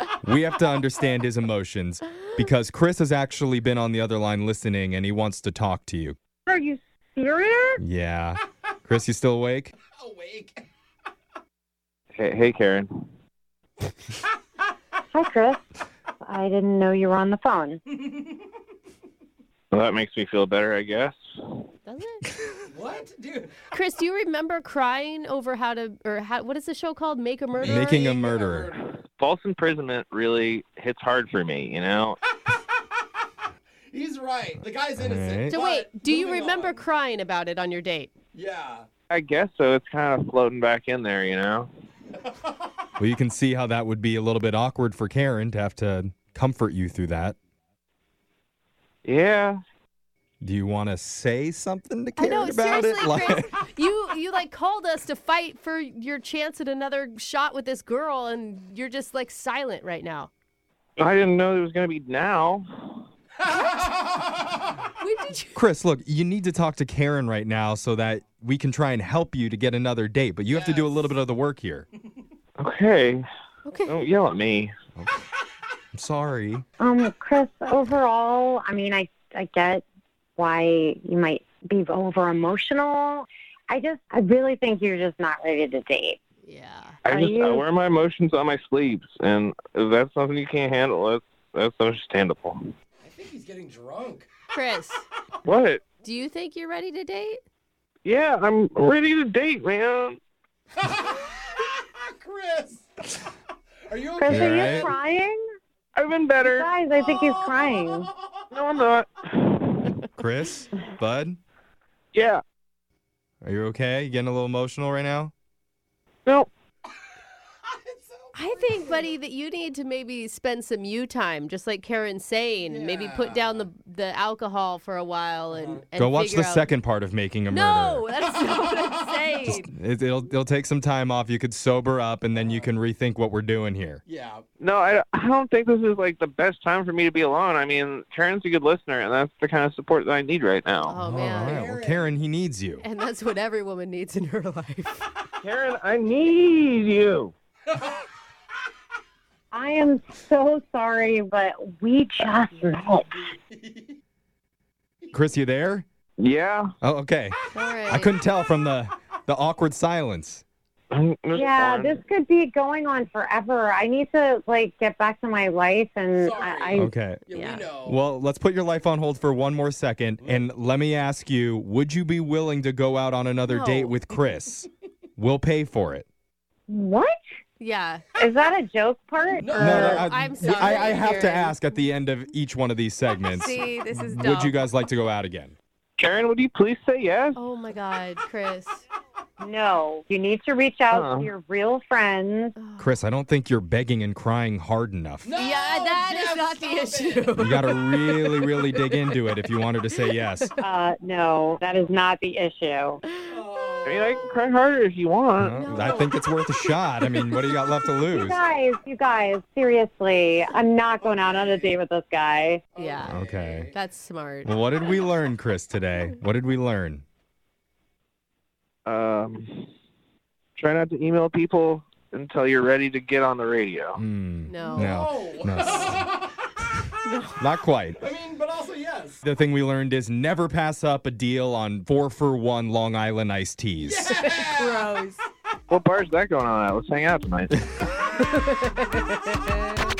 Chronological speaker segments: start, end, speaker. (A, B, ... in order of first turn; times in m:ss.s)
0:00.2-0:06.2 A
0:06.4-0:07.8 B
0:07.8-0:09.7 A
0:09.9-0:10.7 C
0:12.2-0:12.9 D
0:15.1-0:15.6 B
0:16.2-0:17.8 B
0:19.7-0:21.2 D
0:21.8-0:22.2 E
0:22.7-0:23.5 C
0:23.7-0:28.1 E
0:27.5-0:28.8 C
0:27.6-0:28.7 A
0:29.2-0:32.2 D
0:33.9-0:36.8 C
0:35.0-0:35.6 A
0:35.5-0:38.1 E
0:38.3-0:38.9 C
0:39.1-0:41.7 D
0:42.2-0:42.5 C
0:43.0-0:47.4 A
0:49.0-0:49.6 D
0:50.4-0:53.5 A
0:52.2-1:00.3 E
1:01.0-1:03.0 D
1:03.4-1:04.6 C
1:05.0-1:05.6 E
1:05.5-1:11.8 A
1:10.5-1:11.1 C
1:12.6-1:13.2 D
1:13.6-1:14.0 E
1:13.9-1:14.7 D
1:15.9-1:16.6 A
1:16.8-1:19.8 B
1:20.4-1:26.2 B
1:26.4-1:27.0 E
1:27.0-1:32.6 D
1:27.1-1:27.6 B
1:33.0-1:34.3 C
1:34.5-1:35.0 E
1:35.4-1:35.8 D
1:36.0-1:37.4 E
1:38.0-1:40.2 D
1:40.8-1:42.9 C
1:43.9-1:44.9 C
1:44.1-1:45.4 B
1:44.3-1:44.9 A
1:45.9-1:46.7 D
1:46.4-1:48.1 B
1:47.0-1:48.4 C
1:48.5-1:50.0 D
1:50.2-1:51.4 A
1:52.1-1:52.4 D
1:53.4-1:55.3 A
1:57.7-1:59.1 C
1:58.3-2:06.7 E
2:02.6-2:03.6 C
2:05.5-2:05.8 C
2:06.0-2:08.0 A
2:07.5-2:09.7 E
2:08.4-2:09.4 C
2:09.4-2:14.0 A
2:12.3-2:12.7 C
2:14.0-2:14.4 C
2:14.6-2:21.0 D
2:20.8-2:21.6 E
2:21.0-2:22.8 A
2:21.0-2:22.1 C
2:22.8-2:25.0 E
2:25.4-2:27.3 D
2:29.5-2:33.2 B
2:33.1-2:34.0 C
2:35.1-2:35.8 A
2:36.2-2:36.7 D
2:36.8-2:40.4 A
2:37.5-2:38.1 E
2:40.9-2:42.0 D
2:41.3-2:46.9 B
2:46.2-2:48.0 C
2:46.7-2:47.2 A
2:47.3-2:47.6 E
2:47.8-2:56.0 A
2:50.2-2:50.4 C
2:53.5-2:53.9 E
2:56.7-2:57.2 B
2:57.6-2:58.0 E
2:58.2-3:00.0 B
2:59.4-3:00.0 C
2:59.6-3:01.6 E
2:59.6-3:05.5 A
3:03.2-3:04.6 E
3:06.0-3:07.4 D
3:07.4-3:08.8 E
3:09.4-3:12.6 B
3:10.9-3:11.3 D
3:12.6-3:12.9 E
3:12.8-3:15.3 A
3:15.2-3:17.5 C
3:15.4-3:19.5 E
3:17.3-3:20.5 A
3:20.2-3:20.5 E
3:20.6-3:23.0 B
3:23.2-3:24.3 C
3:23.8-3:25.6 D
3:25.4-3:28.4 A
3:25.5-3:26.3 E
3:25.7-3:26.1 C
3:27.0-3:27.6 E
3:28.1-3:32.6 B
3:31.0-3:31.8 C
3:32.7-3:33.7 C
3:32.8-3:33.2 E
3:33.1-3:33.7 A
3:33.7-3:34.5 E
3:34.4-3:37.0 A
3:38.8-3:39.7 D
3:40.6-3:44.0 D
3:44.0-3:46.0 A
3:44.5-3:44.9 E
3:44.6-3:46.3 C
3:47.0-3:47.4 E
3:47.4-3:48.0 A
3:48.0-3:49.2 C
3:49.2-3:54.1 A
3:53.8-3:55.0 C
3:54.2-3:55.2 E
3:55.7-3:57.6 D
3:58.1-3:59.8 E